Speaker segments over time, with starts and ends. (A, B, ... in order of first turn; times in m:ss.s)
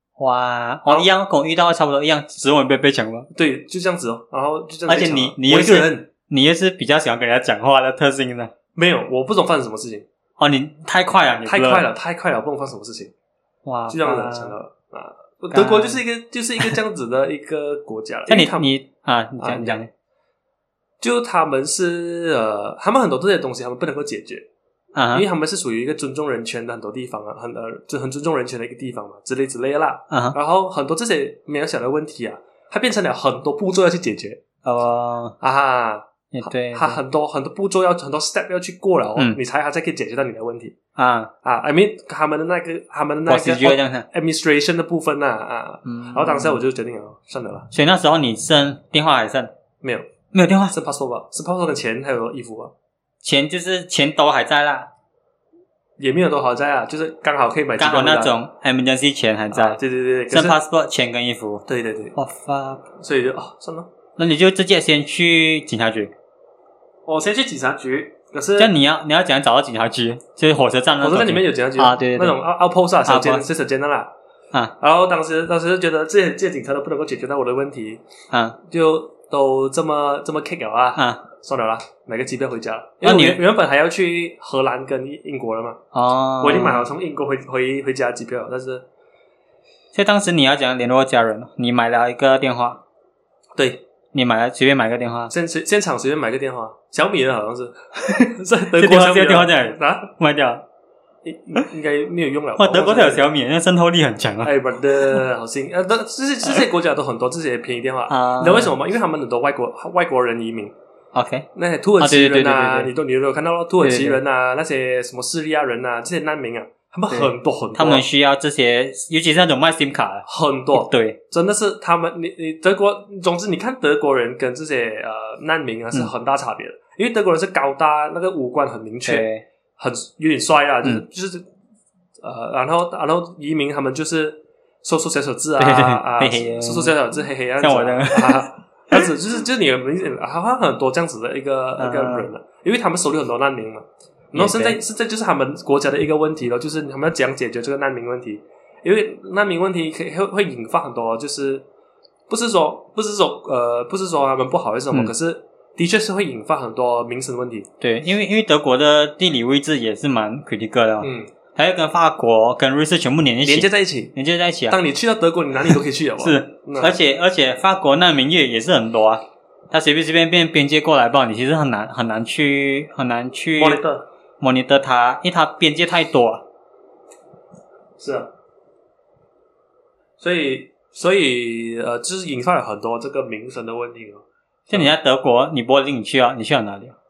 0:00.2-0:03.3 A
0:03.3-0:06.1 B
0:04.9-0:08.5 A
0:08.8-0:10.1 B
0:10.4-0:11.9 A
0:11.4-0:13.1 B
0:13.6-0:14.6 A
0:13.9-0:18.7 B
0:15.5-0:16.0 A
0:18.3-0:19.9 A
0:19.4-0:19.8 B
0:21.0-0:24.4 B
0:24.9-0:25.2 A
0:25.1-0:34.4 B
0:30.1-0:30.4 A
0:34.6-0:35.4 A
0:35.4-0:40.8 B
0:36.3-0:37.0 A
0:41.0-0:41.3 A
0:41.4-0:47.7 B
0:43.3-0:44.1 A
0:45.9-0:46.6 A
0:47.7-0:49.5 A
0:49.8-0:50.1 B
0:50.3-0:50.7 A
0:50.7-0:52.7 B
0:53.2-0:54.9 A
0:56.0-0:58.4 B
0:57.8-0:59.8 A
0:59.5-1:00.6 B
1:00.3-1:01.6 A
1:01.7-1:02.1 B
1:02.2-1:02.8 A
1:03.0-1:03.9 B
1:04.2-1:06.1 A
1:07.1-1:08.7 B
1:08.6-1:12.4 A
1:11.0-1:14.1 B
1:13.1-1:13.4 A
1:14.8-1:18.0 B
1:18.7-1:25.8 B
1:21.0-1:21.2 A
1:23.0-1:23.4 A
1:25.9-1:26.9 A
1:26.4-1:28.9 B
1:29.9-1:32.8 A
1:33.6-1:33.8 B
1:34.1-1:35.3 A
1:35.3-1:40.1 B
1:38.0-1:40.6 A
1:41.2-1:43.2 B
1:42.6-1:44.5 A
1:44.4-1:50.7 B
1:48.1-1:48.7 A
1:51.1-1:51.5 A
1:51.5-1:58.0 B
1:52.0-1:52.9 A
1:53.8-1:54.2 A
1:57.1-2:01.2 A
2:00.2-2:11.4 B
2:09.1-2:09.4 A
2:12.2-2:31.6 B
2:15.6-2:16.9 A
2:17.6-2:19.0 A
2:21.8-2:22.3 A
2:24.4-2:24.8 A
2:32.3-2:37.7 B
2:37.8-2:44.8 A
2:41.0-2:41.3 B
2:43.4-2:44.1 B
2:44.7-2:47.0 B
2:45.7-2:53.8 A
2:53.6-2:54.1 B
2:54.4-2:56.4 A
2:58.0-2:58.3 B
3:00.2-3:04.9 B
3:04.7-3:06.9 A